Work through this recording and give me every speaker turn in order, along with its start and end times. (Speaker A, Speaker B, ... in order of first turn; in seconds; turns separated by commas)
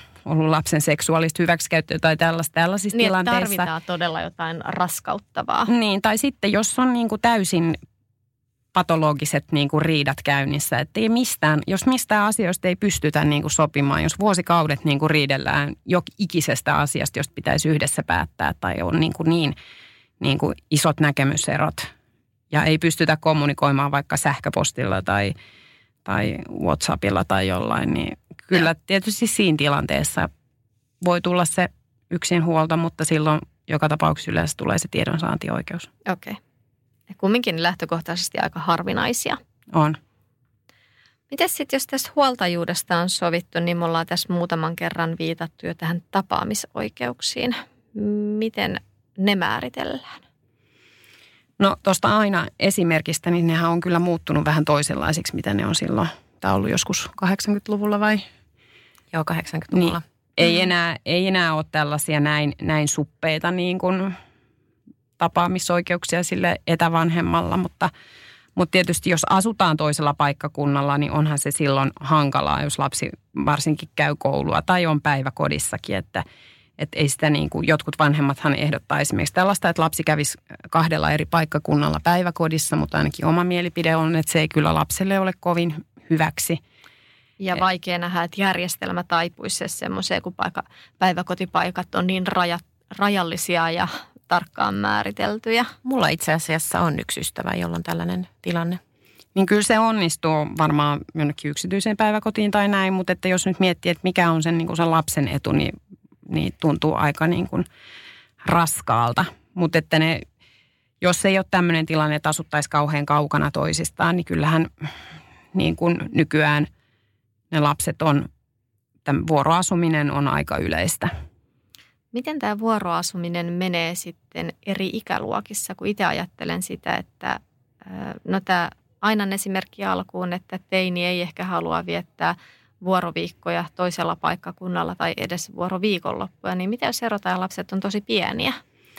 Speaker A: 0.2-3.7, Speaker B: 2.9-5.7, Speaker A: 5.7-7.8, Speaker A: 8.7-19.6, Speaker A: 20.2-21.9, Speaker A: 22.5-25.3, Speaker A: 26.0-30.3, Speaker A: 31.0-35.9, Speaker B: 36.0-36.4, Speaker B: 37.1-39.4, Speaker A: 39.7-40.0, Speaker B: 41.3-50.2, Speaker A: 51.6-58.2, Speaker C: 59.1-60.0, Speaker A: 59.7-64.1, Speaker A: 65.2-67.9, Speaker A: 68.5-76.2, Speaker A: 76.8-86.6, Speaker B: 87.4-95.7, Speaker C: 95.8-98.8, Speaker A: 99.3-105.7, Speaker A: 106.3-107.7, Speaker A: 108.4-110.2, Speaker A: 111.0-114.7, Speaker A: 115.5-116.7, Speaker A: 117.5-118.3, Speaker A: 119.0-121.1, Speaker B: 122.1-138.6